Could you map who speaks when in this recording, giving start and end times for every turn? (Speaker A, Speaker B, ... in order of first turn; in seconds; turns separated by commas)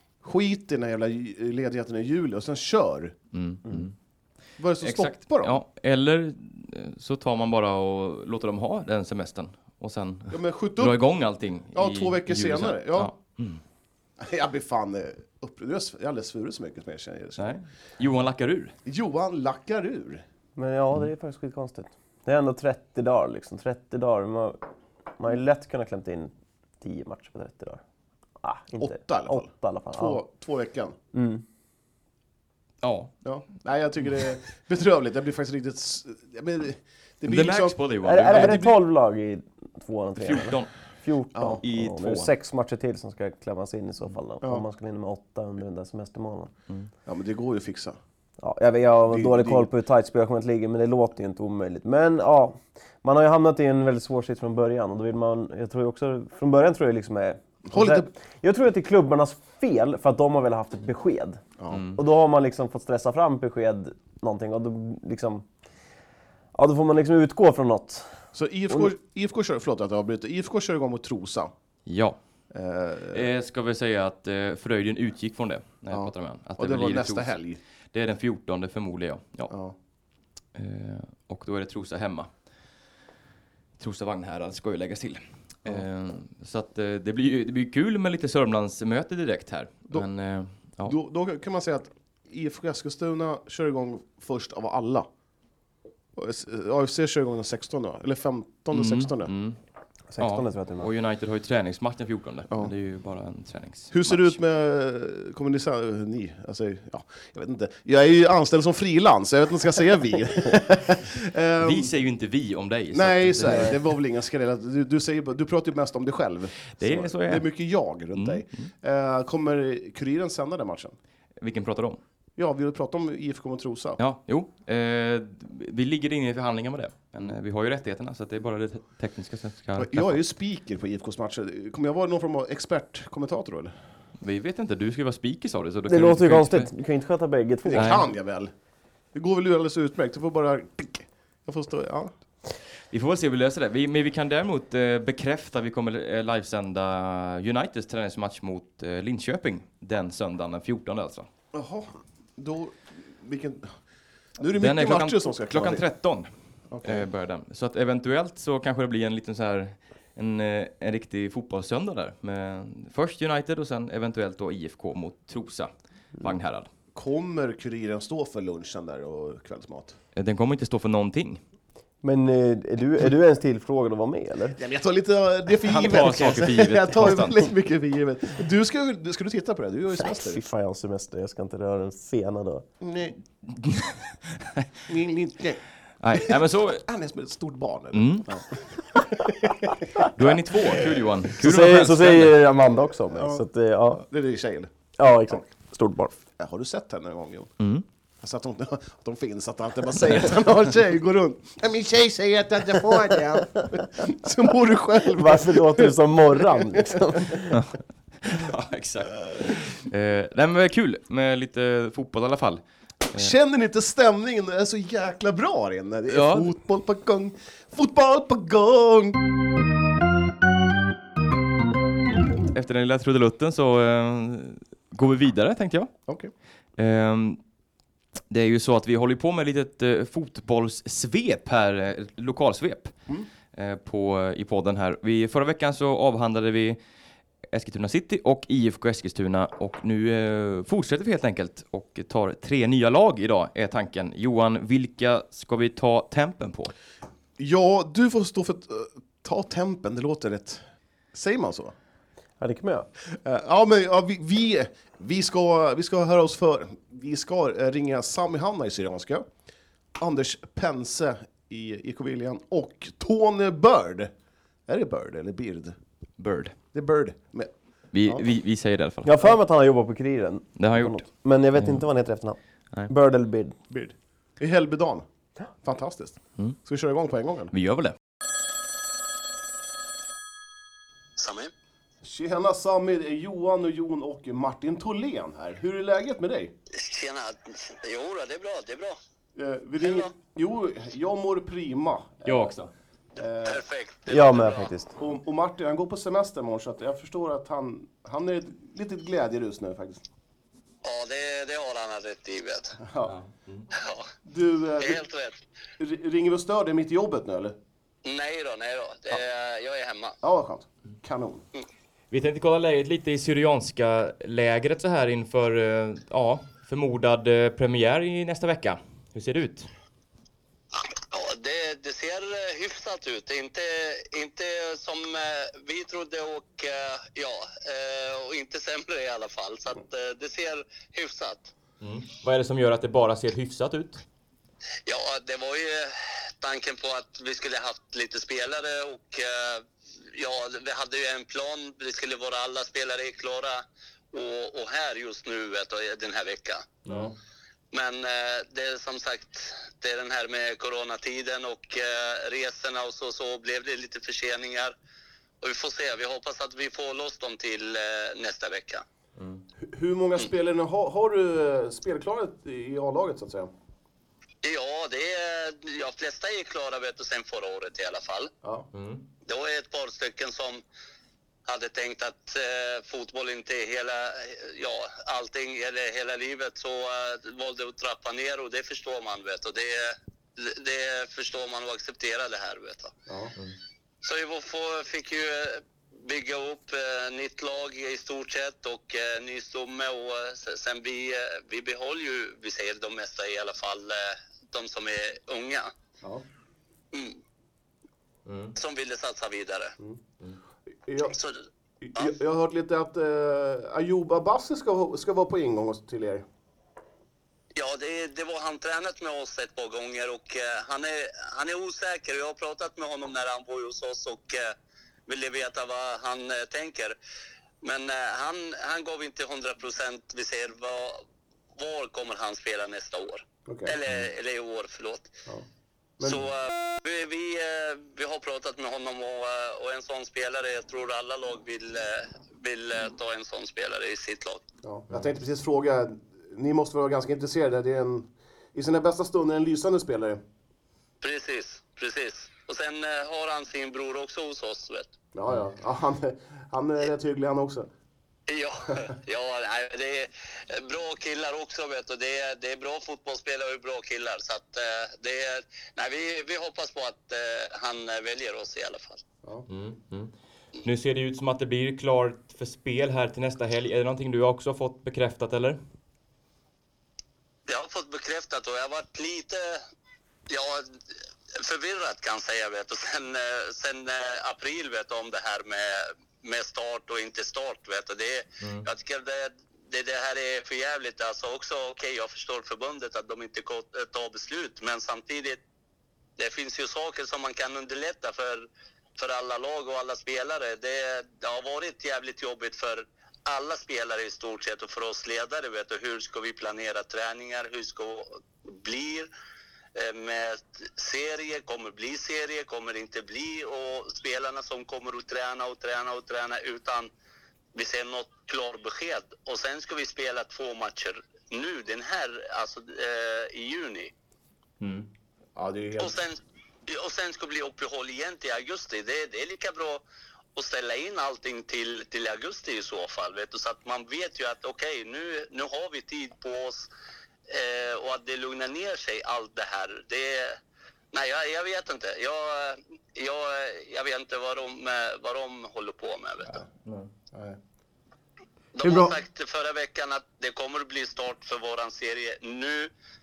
Speaker A: 0.2-3.1, Speaker B: 3.3-3.9, Speaker A: 4.6-5.6, Speaker B: 4.8-13.6, Speaker A: 10.3-11.0, Speaker A: 11.7-13.1, Speaker A: 14.2-17.6, Speaker B: 17.4-18.7, Speaker A: 18.9-20.2, Speaker C: 20.6-24.6, Speaker C: 25.2-27.8, Speaker C: 28.4-30.2, Speaker A: 28.8-30.9, Speaker C: 31.1-31.4, Speaker B: 32.8-33.1, Speaker A: 33.2-38.6, Speaker B: 37.3-38.8, Speaker C: 38.0-46.5, Speaker B: 40.2-40.7, Speaker A: 41.3-41.6, Speaker B: 41.6-42.3, Speaker A: 47.1-48.0, Speaker C: 48.4-61.4, Speaker A: 49.1-49.7, Speaker A: 57.7-58.1, Speaker B: 61.7-62.0, Speaker C: 62.0-65.5, Speaker C: 66.5-68.1, Speaker A: 68.3-71.5, Speaker B: 71.9-72.2, Speaker A: 72.5-73.2, Speaker B: 73.1-77.3, Speaker A: 75.9-77.6, Speaker B: 77.9-79.5, Speaker A: 79.5-79.8, Speaker B: 80.5-82.3, Speaker B: 83.8-91.0, Speaker A: 90.8-95.1, Speaker A: 96.2-99.3, Speaker B: 98.7-99.6, Speaker C: 100.1-100.9, Speaker B: 100.2-104.4, Speaker A: 103.9-111.9, Speaker B: 111.6-113.8, Speaker A: 112.9-121.0, Speaker B: 116.8-117.5, Speaker B: 118.2-118.7, Speaker B: 121.4-122.0, Speaker A: 122.4-124.0, Speaker B: 124.0-130.2, Speaker A: 129.8-133.7, Speaker B: 134.2-136.7, Speaker C: 135.9-138.0, Speaker A: 137.7-138.5, Speaker B: 137.7-138.1, Speaker A: 139.1-142.1, Speaker B: 142.9-151.3, Speaker A: 151.5-153.7, Speaker A: 154.4-155.8, Speaker B: 154.6-156.3, Speaker A: 156.7-157.1, Speaker B: 156.8-166.7, Speaker A: 166.9-170.0, Speaker B: 170.2-171.4, Speaker C: 172.0-174.6, Speaker A: 174.6-180.4, Speaker B: 175.6-177.5, Speaker C: 179.9-182.7, Speaker A: 182.8-183.2, Speaker B: 183.5-184.7, Speaker A: 184.9-188.7, Speaker B: 186.0-186.8, Speaker B: 187.9-188.3, Speaker B: 190.1-192.4, Speaker A: 190.6-191.0, Speaker C: 191.4-194.0, Speaker A: 193.1-194.7, Speaker C: 195.0-196.1, Speaker A: 196.4-197.5, Speaker B: 197.6-197.8, Speaker A: 198.2-206.8, Speaker C: 205.2-207.6, Speaker B: 207.5-213.3, Speaker A: 213.1-219.2, Speaker B: 216.1-216.5, Speaker B: 222.5-225.9, Speaker B: 226.8-227.4, Speaker B: 228.3-232.9, Speaker B: 233.5-236.8, Speaker B: 237.5-246.7, Speaker A: 247.4-251.7, Speaker C: 252.4-252.9, Speaker A: 253.2-259.3, Speaker A: 260.0-264.1, Speaker A: 264.7-265.8, Speaker B: 266.2-266.6, Speaker A: 266.7-267.5, Speaker B: 267.9-269.4, Speaker C: 269.1-273.6, Speaker B: 270.6-271.0, Speaker B: 271.6-271.8, Speaker A: 273.7-275.1, Speaker A: 275.6-277.5, Speaker B: 277.5-277.9, Speaker D: 281.2-281.5, Speaker A: 282.0-286.5, Speaker D: 286.7-289.0, Speaker A: 289.4-292.5, Speaker D: 289.8-290.1, Speaker B: 292.2-292.7, Speaker A: 293.2-293.6, Speaker D: 293.4-294.7, Speaker C: 294.1-294.9, Speaker A: 295.0-300.0, Speaker D: 300.8-302.8, Speaker A: 302.8-303.2, Speaker B: 303.1-303.7, Speaker D: 303.7-304.1, Speaker A: 304.2-305.0, Speaker D: 304.8-305.4, Speaker A: 305.8-307.6, Speaker D: 308.1-310.2, Speaker A: 310.2-311.4, Speaker B: 312.1-319.7, Speaker D: 321.0-331.5, Speaker B: 331.8-334.0, Speaker D: 334.9-346.7, Speaker B: 346.9-347.2, Speaker D: 347.7-354.8, Speaker D: 355.4-358.8, Speaker B: 359.2-359.4, Speaker A: 359.6-363.5, Speaker D: 364.4-368.3, Speaker B: 368.7-369.1, Speaker D: 369.2-370.6, Speaker D: 371.4-382.9, Speaker A: 383.1-383.3, Speaker D: 384.0-395.7, Speaker D: 396.9-397.2, Speaker B: 398.3-398.6, Speaker D: 398.6-399.8, Speaker A: 400.9-401.2, Speaker D: 401.1-401.4, Speaker A: 401.8-406.3, Speaker D: 407.6-414.6, Speaker D: 415.1-417.0, Speaker D: 417.6-421.0, Speaker D: 421.6-425.1, Speaker A: 423.5-423.8, Speaker D: 426.0-434.4, Speaker A: 434.6-440.2, Speaker D: 441.0-444.9, Speaker A: 445.1-447.7, Speaker D: 448.3-459.0, Speaker B: 459.5-465.6, Speaker D: 467.5-469.6, Speaker D: 470.3-470.8, Speaker D: 471.3-485.4, Speaker B: 478.4-478.7, Speaker D: 486.2-488.5, Speaker D: 489.0-499.1, Speaker D: 499.8-506.9, Speaker D: 507.6-513.9, Speaker B: 514.6-514.9, Speaker A: 515.4-516.0, Speaker D: 515.8-519.8, Speaker D: 520.4-526.7, Speaker D: 527.3-530.4, Speaker D: 530.9-536.4, Speaker B: 536.6-536.9, Speaker A: 537.1-537.4, Speaker D: 538.6-542.7, Speaker A: 538.6-538.9